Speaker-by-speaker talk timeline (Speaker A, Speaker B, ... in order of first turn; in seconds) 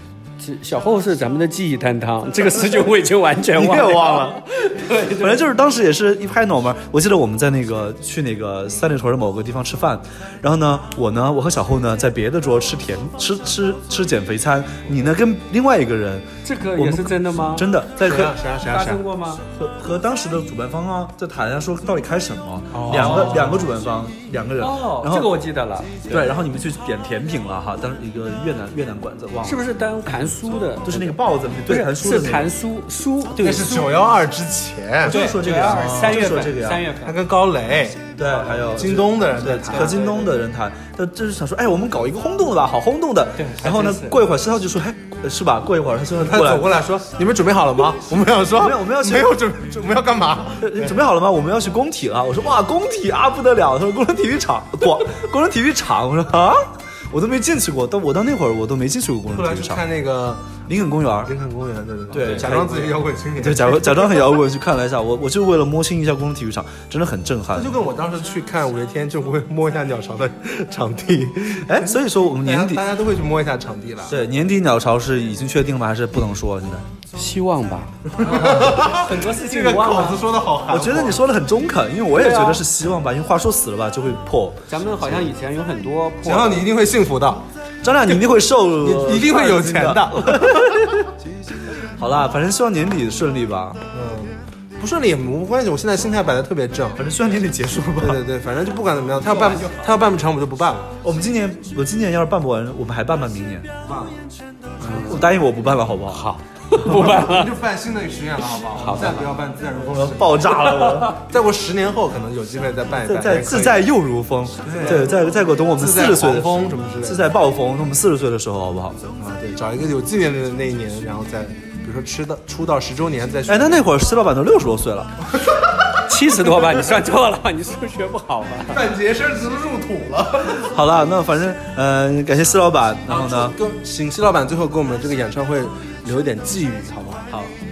Speaker A: 0.4-5.4, 16.4-19.4, 22.9-23.7, 24.6-26.0, 29.4-34.1, 35.0-37.2, 39.7-40.3, 43.4-44.2, 62.1-62.4, 77.1-80.2, 82.1-82.6, 84.7-86.7, 99.3-99.8, 104.8-105.2, 106.1-107.6, 108.7-109.3, 110.8-111.0, 126.0-128.9
Speaker B: 2.5-2.9, 3.5-4.4, 5.2-18.3, 19.5-25.4, 26.1-29.6, 30.8-32.5, 35.0-36.9, 38.1-46.8, 48.6-49.4, 50.6-59.8, 60.7-61.3, 62.1-67.7, 71.7-72.8, 74.1-76.8, 80.7-84.6, 87.8-91.1, 92.0-93.8, 97.0-98.2, 101.0-103.8, 104.8-106.3, 109.8-111.2, 113.0-119.0, 123.5-125.2, 130.5-133.6
Speaker C: 18.0-19.0, 22.7-23.6, 33.4-35.2, 37.0-40.0, 46.1-50.9, 59.3-60.6, 61.2-64.2, 67.5-74.1, 78.2-81.2, 86.2-87.5, 88.8-90.7, 93.9-97.0, 98.0-101.0, 104.8-105.2, 106.8-110.6, 111.2-113.8, 114.6-115.2, 115.7-117.3, 119.2-123.8, 128.7-130.7, 133.1-137.3